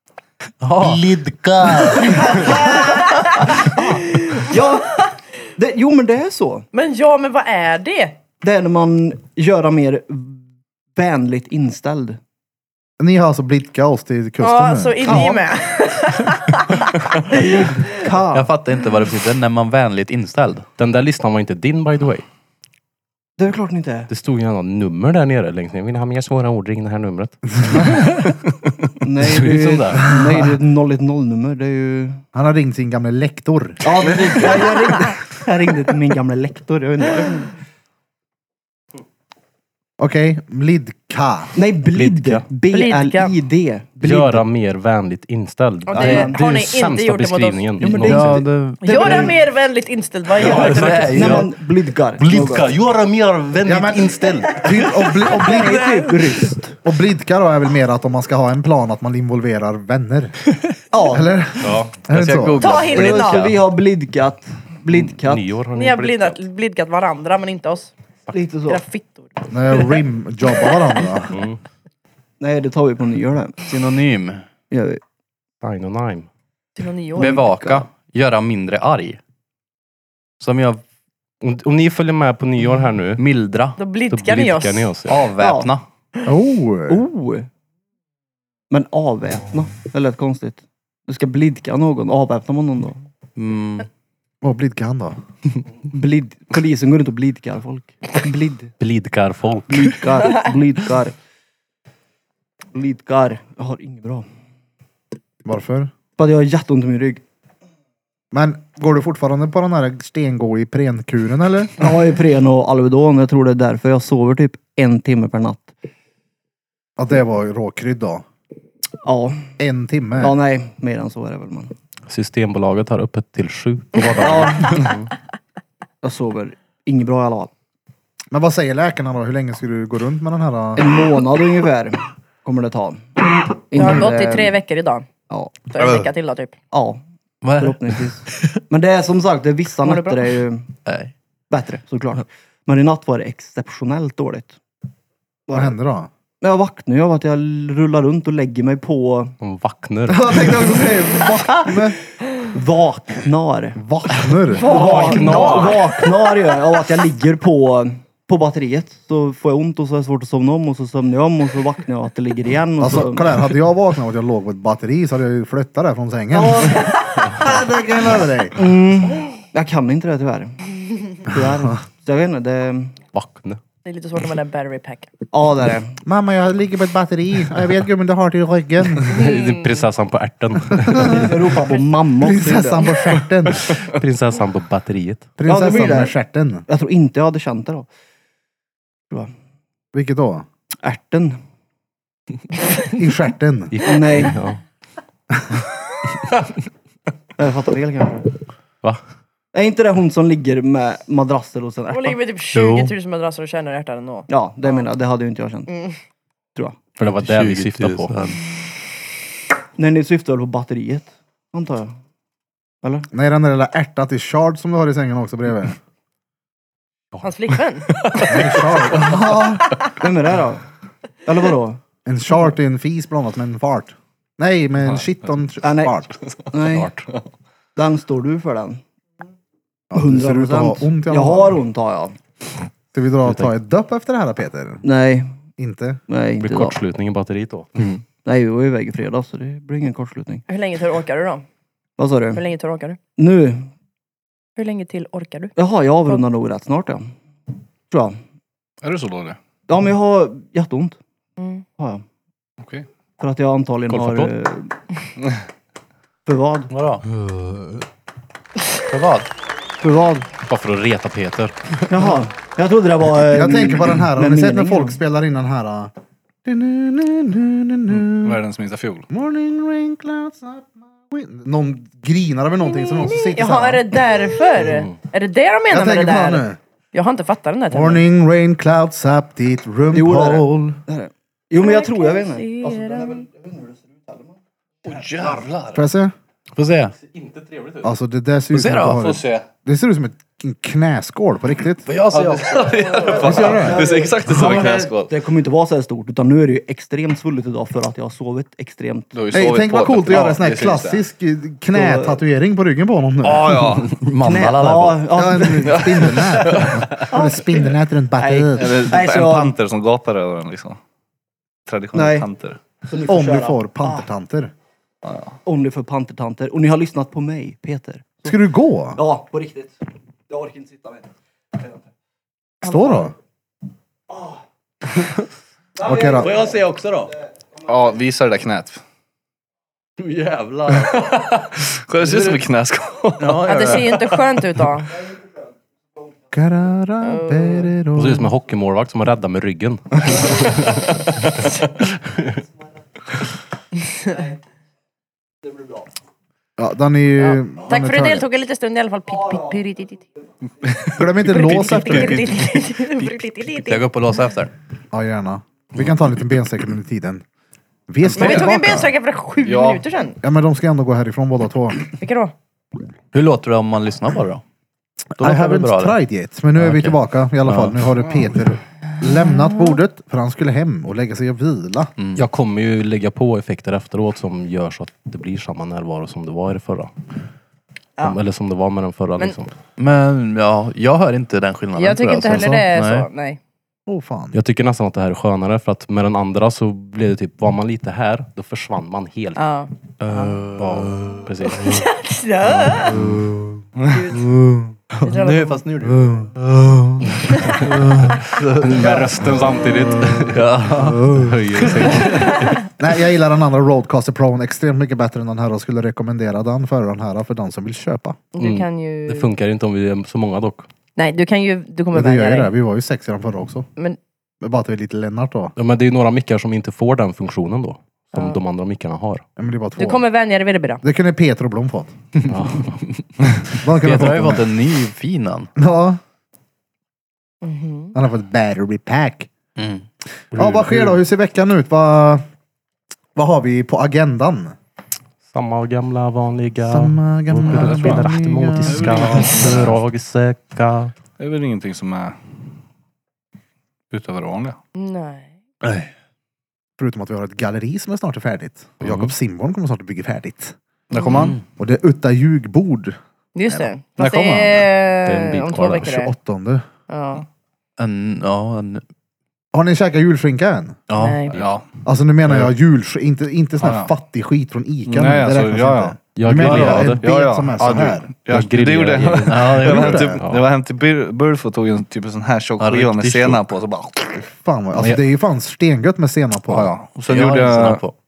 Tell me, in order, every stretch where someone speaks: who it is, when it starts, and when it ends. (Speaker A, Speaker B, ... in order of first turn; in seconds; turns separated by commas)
Speaker A: 0.6-2.5, Speaker B: 2.2-3.0, Speaker C: 2.2-5.1, Speaker B: 3.5-6.7, Speaker C: 6.7-8.2, Speaker B: 8.4-10.4, Speaker B: 10.9-12.2, Speaker D: 13.0-15.2, Speaker C: 14.4-17.6, Speaker B: 15.1-15.5, Speaker B: 17.3-18.5, Speaker A: 18.3-20.7, Speaker E: 20.8-22.3, Speaker B: 23.4-24.1, Speaker E: 24.1-28.1, Speaker B: 29.0-32.2, Speaker E: 29.2-30.2, Speaker D: 32.3-34.3, Speaker B: 33.8-37.6, Speaker D: 40.0-41.5, Speaker B: 41.5-44.5, Speaker E: 41.9-42.5, Speaker C: 42.7-43.4, Speaker E: 44.0-48.5, Speaker C: 45.9-47.8, Speaker B: 45.9-46.4, Speaker B: 47.8-49.3, Speaker A: 47.8-49.4, Speaker C: 48.8-51.3, Speaker A: 50.4-51.5, Speaker E: 50.4-51.5, Speaker B: 50.4-52.7, Speaker E: 52.2-54.4, Speaker A: 52.2-52.7, Speaker D: 53.6-55.9, Speaker B: 55.2-56.8, Speaker D: 56.8-60.3, Speaker B: 60.9-61.2, Speaker D: 61.0-62.6, Speaker E: 61.6-61.9, Speaker A: 62.1-63.6, Speaker C: 62.6-63.4, Speaker B: 62.8-65.5, Speaker E: 64.9-66.4, Speaker C: 65.7-67.9, Speaker B: 68.3-68.8, Speaker C: 68.7-69.4, Speaker D: 69.5-71.3, Speaker E: 71.3-71.6, Speaker B: 72.4-73.6, Speaker A: 73.7-74.4, Speaker B: 74.7-75.0, Speaker E: 75.6-76.3, Speaker C: 76.8-77.5, Speaker A: 77.2-79.2, Speaker B: 77.2-77.8, Speaker A: 80.4-80.8, Speaker E: 81.4-83.2, Speaker A: 83.2-83.8, Speaker C: 83.8-84.9, Speaker E: 84.1-85.2, Speaker A: 85.1-85.8, Speaker B: 85.4-85.7, Speaker D: 86.2-87.0, Speaker B: 86.9-87.5, Speaker B: 88.7-93.0, Speaker A: 93.4-93.9, Speaker D: 94.4-95.2, Speaker B: 95.9-98.7, Speaker E: 98.8-100.0, Speaker B: 99.7-101.1, Speaker B: 102.7-104.2, Speaker D: 105.4-105.9, Speaker B: 106.2-107.2, Speaker D: 108.3-111.8, Speaker B: 111.8-115.7, Speaker D: 117.0-118.2, Speaker B: 119.0-119.5, Speaker D: 119.6-120.3, Speaker B: 120.2-121.7, Speaker E: 122.1-124.9, Speaker B: 124.1-124.9, Speaker B: 126.0-127.5, Speaker D: 128.3-131.0, Speaker B: 130.8-134.5, Speaker C: 133.7-135.1, Speaker C: 135.7-136.5, Speaker A: 135.8-136.1, Speaker B: 136.7-137.0, Speaker A: 137.4-138.1, Speaker B: 137.6-140.7, Speaker C: 139.8-140.3, Speaker A: 140.8-141.1, Speaker B: 141.5-144.6, Speaker B: 145.5-145.7, Speaker D: 145.5-146.1, Speaker B: 146.4-149.3, Speaker E: 149.4-150.5, Speaker D: 150.1-152.0, Speaker B: 152.4-163.5, Speaker D: 153.8-154.7, Speaker C: 154.5-156.1, Speaker E: 154.6-155.8, Speaker D: 162.8-168.6, Speaker B: 166.3-166.9, Speaker C: 167.0-167.3, Speaker B: 168.5-170.6, Speaker B: 171.2-172.9, Speaker E: 173.1-173.6, Speaker C: 173.8-175.1, Speaker B: 175.3-176.0, Speaker D: 176.0-179.2, Speaker E: 179.1-181.4, Speaker C: 179.1-179.8, Speaker D: 180.8-181.3, Speaker B: 181.0-182.9, Speaker D: 182.2-183.7, Speaker F: 183.7-184.0, Speaker E: 183.9-185.3, Speaker D: 185.4-186.6, Speaker B: 185.4-186.1, Speaker B: 186.7-187.9, Speaker D: 189.9-190.4, Speaker B: 190.8-191.4, Speaker D: 192.9-193.7, Speaker E: 193.7-194.6, Speaker B: 193.8-194.4, Speaker B: 197.4-198.3, Speaker B: 199.5-202.2, Speaker C: 201.9-204.3, Speaker A: 202.5-202.9, Speaker B: 204.3-205.7, Speaker C: 205.7-206.0, Speaker E: 207.0-208.2, Speaker A: 207.0-208.4, Speaker B: 209.8-211.9, Speaker B: 212.8-213.1, Speaker D: 213.1-215.8, Speaker C: 217.2-218.5, Speaker D: 218.2-219.7, Speaker B: 219.9-220.7, Speaker B: 221.2-221.8, Speaker D: 222.1-226.1, Speaker F: 224.8-225.1, Speaker B: 225.6-225.9, Speaker F: 226.2-226.5, Speaker B: 226.5-226.9, Speaker E: 226.7-227.0, Speaker B: 227.8-228.8, Speaker D: 229.9-231.6, Speaker B: 229.9-232.2, Speaker D: 232.9-234.8, Speaker E: 233.2-233.5, Speaker B: 234.8-235.3, Speaker D: 235.6-236.0, Speaker B: 236.1-236.8, Speaker E: 236.4-237.7, Speaker B: 238.2-240.4, Speaker C: 240.5-241.4, Speaker B: 242.0-242.4, Speaker C: 242.3-243.0, Speaker B: 243.2-243.7, Speaker C: 244.6-245.5, Speaker B: 245.6-247.1, Speaker B: 247.9-248.2, Speaker F: 248.8-249.4, Speaker B: 249.7-251.0, Speaker C: 251.4-251.6, Speaker B: 251.8-252.0, Speaker F: 252.6-252.8, Speaker B: 253.2-254.7, Speaker E: 253.9-254.3, Speaker B: 256.2-256.7, Speaker A: 256.7-257.0, Speaker E: 257.2-257.6, Speaker A: 258.9-259.3, Speaker B: 259.8-260.2, Speaker E: 260.4-261.9, Speaker B: 261.9-265.0, Speaker D: 263.3-265.9, Speaker D: 266.4-268.4, Speaker F: 267.9-269.1, Speaker D: 269.1-273.8, Speaker C: 272.6-278.0, Speaker E: 274.6-274.9, Speaker D: 275.7-276.6, Speaker D: 277.7-280.8, Speaker B: 279.9-284.3, Speaker C: 281.6-283.3, Speaker F: 284.8-285.8, Speaker D: 285.7-286.1, Speaker A: 286.5-286.9, Speaker E: 287.0-287.9, Speaker D: 287.8-291.9, Speaker A: 288.5-289.0, Speaker F: 289.0-289.4, Speaker A: 291.8-293.1, Speaker F: 292.1-295.1, Speaker B: 293.0-299.1, Speaker D: 293.2-293.8, Speaker F: 299.1-301.0, Speaker D: 299.3-303.7, Speaker B: 301.7-302.2, Speaker F: 303.2-304.0, Speaker A: 303.8-305.1, Speaker B: 304.2-306.2, Speaker D: 305.1-308.9, Speaker F: 305.7-307.1, Speaker B: 307.1-309.5, Speaker F: 308.6-310.8, Speaker F: 311.6-312.6, Speaker B: 311.9-312.3, Speaker B: 312.9-314.1, Speaker D: 313.1-314.5, Speaker F: 315.0-315.3, Speaker B: 315.4-318.4, Speaker D: 318.2-319.0, Speaker B: 318.9-319.7, Speaker B: 320.3-321.1, Speaker D: 322.6-323.1, Speaker C: 322.7-323.0, Speaker B: 324.1-324.4, Speaker B: 325.8-326.5, Speaker D: 325.8-326.3, Speaker A: 326.2-327.1, Speaker F: 327.6-328.8, Speaker A: 330.0-331.4, Speaker F: 330.7-333.4, Speaker A: 332.0-332.4, Speaker A: 333.2-334.3, Speaker C: 333.4-334.9, Speaker D: 336.3-338.3, Speaker C: 337.0-337.7, Speaker E: 337.9-340.9, Speaker E: 342.0-342.3, Speaker D: 346.6-348.2, Speaker C: 347.3-350.0, Speaker F: 350.6-352.6, Speaker D: 350.9-352.3, Speaker C: 351.2-353.8, Speaker A: 353.5-354.5, Speaker D: 354.9-357.2, Speaker D: 357.9-358.9, Speaker F: 358.1-358.5, Speaker C: 358.1-360.2, Speaker F: 359.4-359.8, Speaker D: 360.2-361.8, Speaker C: 362.0-362.3, Speaker A: 363.1-364.4, Speaker D: 365.2-371.9, Speaker A: 365.2-366.0, Speaker A: 366.5-367.8, Speaker A: 372.0-372.2, Speaker E: 372.1-376.9, Speaker E: 378.0-379.5, Speaker A: 379.8-383.1, Speaker C: 381.7-383.4, Speaker D: 383.9-384.4, Speaker E: 384.3-389.4, Speaker C: 389.4-390.4, Speaker A: 390.0-391.3, Speaker E: 390.5-391.9, Speaker C: 391.6-393.0, Speaker A: 392.9-393.2, Speaker D: 392.9-393.6, Speaker C: 393.9-394.3, Speaker D: 394.2-394.7, Speaker A: 394.9-399.4, Speaker C: 395.0-395.6, Speaker D: 395.9-396.3, Speaker E: 397.8-402.6, Speaker D: 399.3-400.2, Speaker A: 400.0-402.4, Speaker D: 400.9-401.2, Speaker C: 402.1-402.5, Speaker D: 402.8-408.2, Speaker C: 408.3-409.3, Speaker E: 408.4-410.7, Speaker C: 410.9-412.5, Speaker D: 411.9-413.7, Speaker D: 414.4-415.5, Speaker E: 415.6-419.2, Speaker C: 418.1-418.4, Speaker D: 419.4-420.0, Speaker C: 419.8-420.8, Speaker D: 420.8-421.9, Speaker E: 422.3-422.8, Speaker A: 422.3-422.7, Speaker D: 423.5-424.5, Speaker A: 423.8-425.5, Speaker D: 425.6-426.0, Speaker C: 427.4-427.9, Speaker D: 427.9-429.3, Speaker A: 429.6-429.8, Speaker E: 430.3-431.0, Speaker D: 430.3-432.2, Speaker D: 433.1-434.5, Speaker E: 435.3-440.9, Speaker D: 436.6-439.7, Speaker F: 437.4-438.1, Speaker F: 438.7-439.7, Speaker F: 441.2-442.2, Speaker F: 443.9-444.6, Speaker C: 444.8-445.3, Speaker D: 446.8-450.5, Speaker E: 448.8-449.1, Speaker C: 450.9-451.4, Speaker F: 451.1-451.3, Speaker A: 451.1-451.4, Speaker D: 451.1-453.0, Speaker C: 453.3-456.1, Speaker D: 453.5-454.5, Speaker E: 455.0-455.9, Speaker D: 455.8-456.7, Speaker C: 456.9-457.2, Speaker A: 457.8-458.8, Speaker D: 459.5-460.8, Speaker A: 460.9-461.3, Speaker C: 461.0-461.4, Speaker F: 461.4-461.7, Speaker D: 461.8-468.1, Speaker F: 463.6-463.9, Speaker F: 464.9-474.2, Speaker E: 466.1-467.0, Speaker A: 466.3-467.0, Speaker E: 468.3-469.7, Speaker A: 469.3-470.1, Speaker D: 469.6-470.2, Speaker E: 470.2-470.5, Speaker A: 472.6-473.6, Speaker D: 474.2-476.7, Speaker F: 476.5-477.8, Speaker A: 477.1-477.9